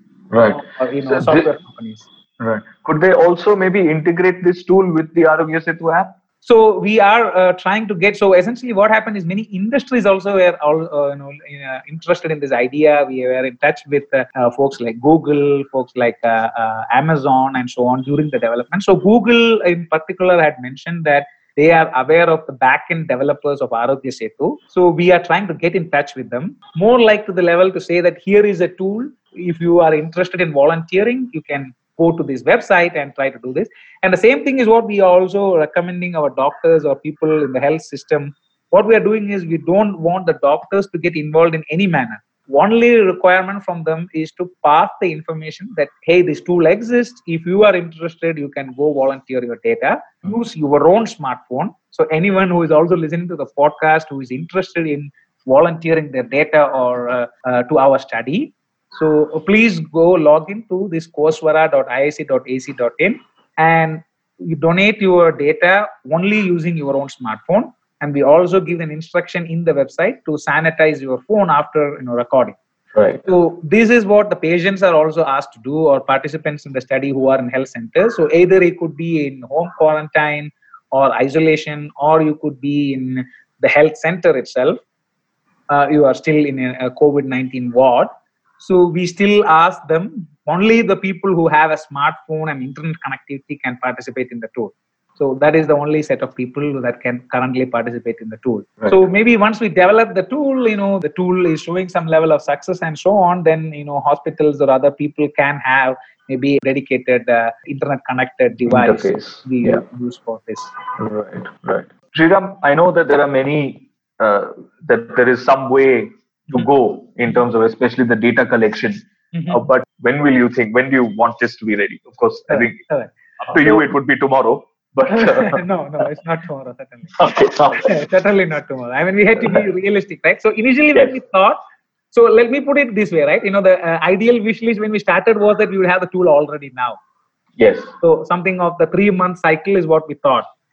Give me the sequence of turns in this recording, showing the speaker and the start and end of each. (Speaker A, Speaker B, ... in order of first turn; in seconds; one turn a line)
Speaker A: 0.3-1.5
Speaker B: 0.5-2.1
Speaker A: 2.4-6.1
Speaker B: 6.4-72.5
Speaker A: 72.9-73.3
Speaker B: 73.2-84.8
Speaker B: 85.7-110.7
Speaker A: 108.7-109.8
Speaker A: 111.0-122.8
Speaker B: 119.3-119.6
Speaker B: 122.5-123.8
Speaker A: 123.4-125.6
Speaker B: 125.1-127.2
Speaker A: 127.1-128.0
Speaker B: 127.8-131.6
Speaker B: 132.1-137.0
Speaker A: 137.6-137.9
Speaker B: 138.0-140.5